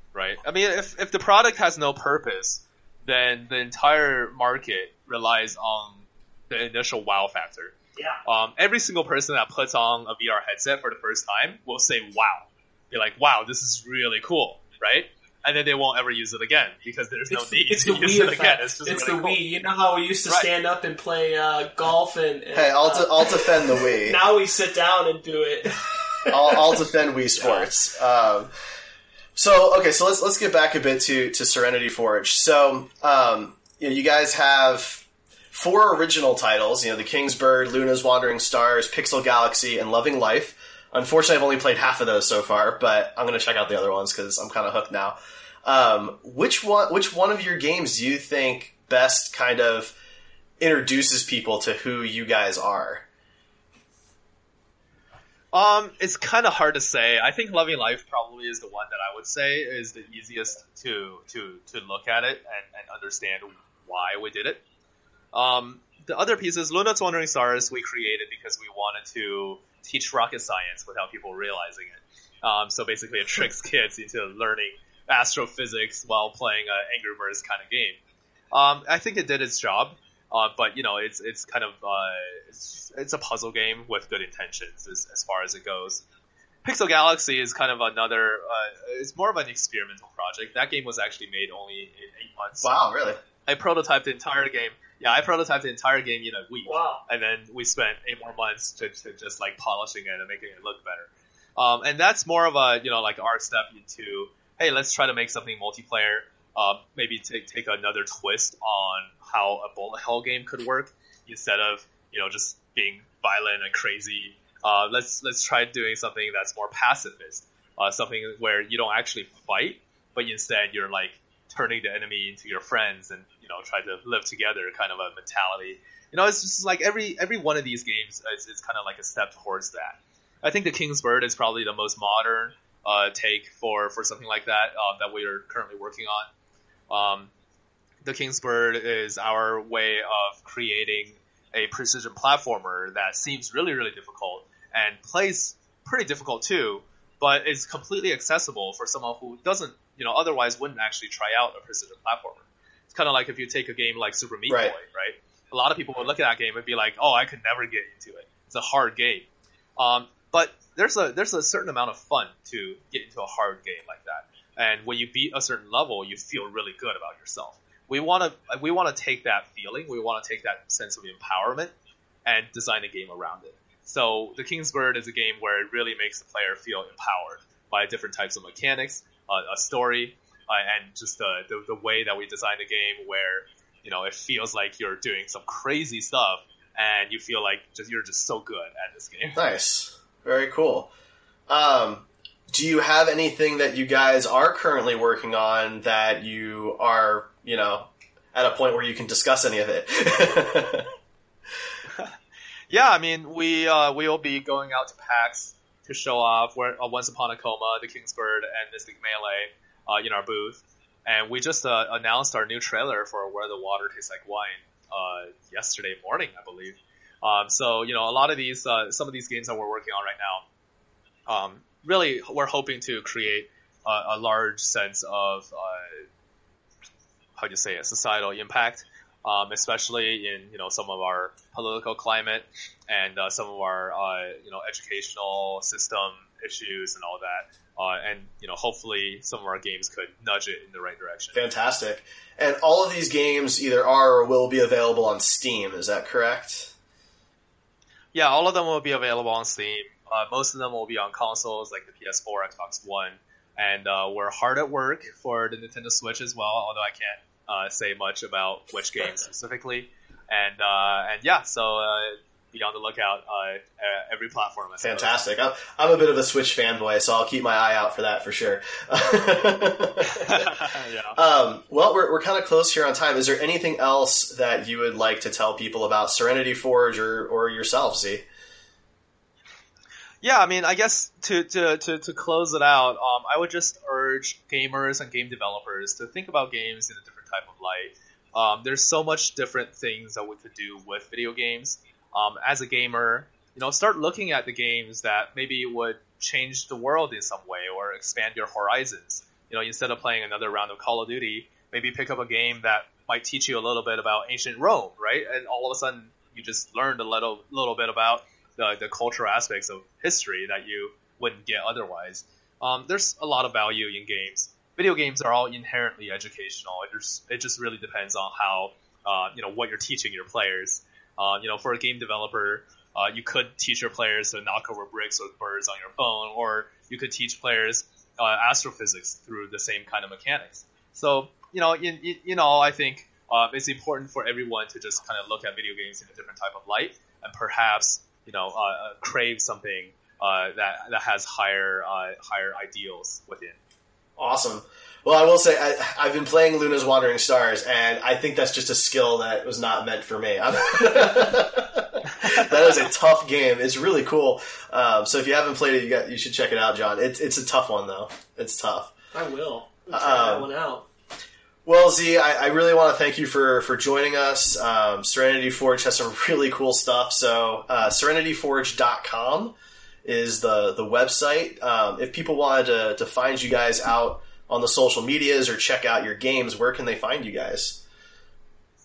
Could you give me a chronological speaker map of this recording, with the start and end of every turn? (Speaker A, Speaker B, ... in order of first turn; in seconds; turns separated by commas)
Speaker A: 0.1-7.7, Speaker A: 8.2-19.4, Speaker B: 17.3-26.8, Speaker C: 22.5-24.2, Speaker C: 26.3-28.5, Speaker B: 27.4-27.7, Speaker C: 29.4-50.0, Speaker C: 50.6-53.0, Speaker A: 55.5-64.6, Speaker A: 65.3-78.0, Speaker A: 78.5-86.0, Speaker A: 86.6-92.7, Speaker C: 92.6-93.2, Speaker A: 93.5-136.3, Speaker B: 96.7-97.0, Speaker A: 136.9-137.3, Speaker A: 138.0-159.3, Speaker C: 154.5-154.8, Speaker A: 159.8-171.7, Speaker A: 172.2-189.4, Speaker C: 189.3-190.9, Speaker C: 191.5-200.9, Speaker A: 202.7-220.4, Speaker A: 221.3-226.1, Speaker A: 227.4-241.4, Speaker C: 241.3-246.7, Speaker A: 248.1-265.1, Speaker C: 264.8-278.3, Speaker A: 270.0-271.2, Speaker A: 280.2-343.6, Speaker C: 344.2-358.9, Speaker B: 359.1-360.9, Speaker C: 359.9-360.5, Speaker C: 361.6-377.8